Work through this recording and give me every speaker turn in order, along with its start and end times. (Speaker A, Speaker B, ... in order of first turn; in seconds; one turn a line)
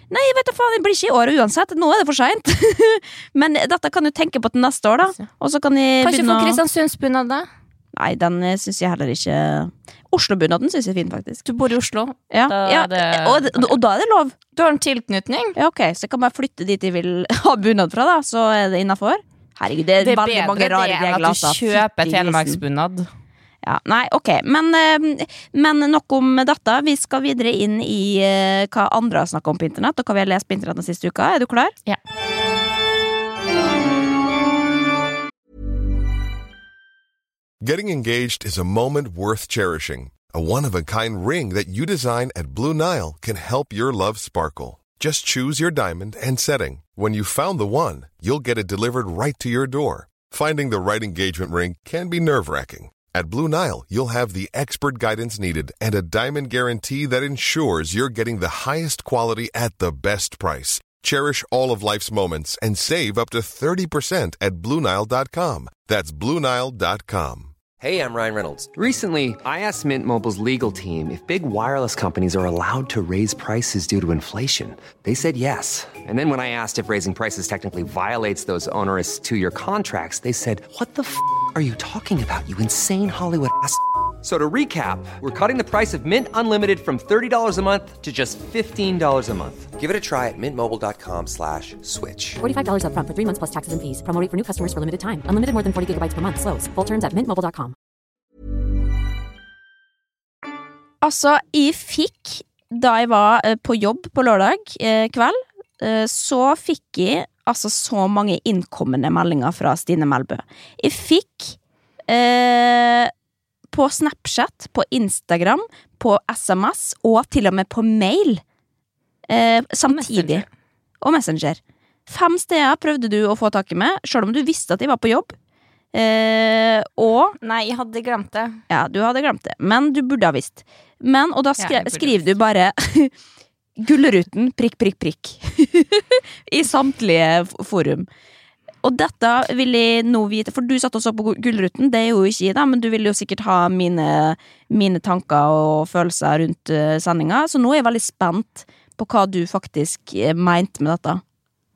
Speaker A: 0.1-6.6
Speaker B: 6.0-7.5
Speaker A: 7.9-11.4
Speaker B: 11.4-13.8
Speaker A: 12.3-14.3
Speaker B: 14.6-15.6
Speaker A: 15.6-22.6
Speaker B: 20.0-23.1
Speaker A: 23.6-31.8
Speaker C: 37.6-67.5
Speaker D: 67.8-92.4
Speaker E: 92.4-97.7
Speaker A: 101.0-111.6
Speaker A: 112.1-113.1
Speaker A: 113.7-118.4
Speaker A: 119.3-120.5
Speaker B: 119.9-120.5
Speaker A: 121.0-125.3
Speaker A: 125.9-127.3
Speaker B: 127.4-128.6
Speaker A: 128.7-133.1
Speaker B: 131.6-132.3
Speaker A: 133.8-138.1
Speaker A: 138.8-151.2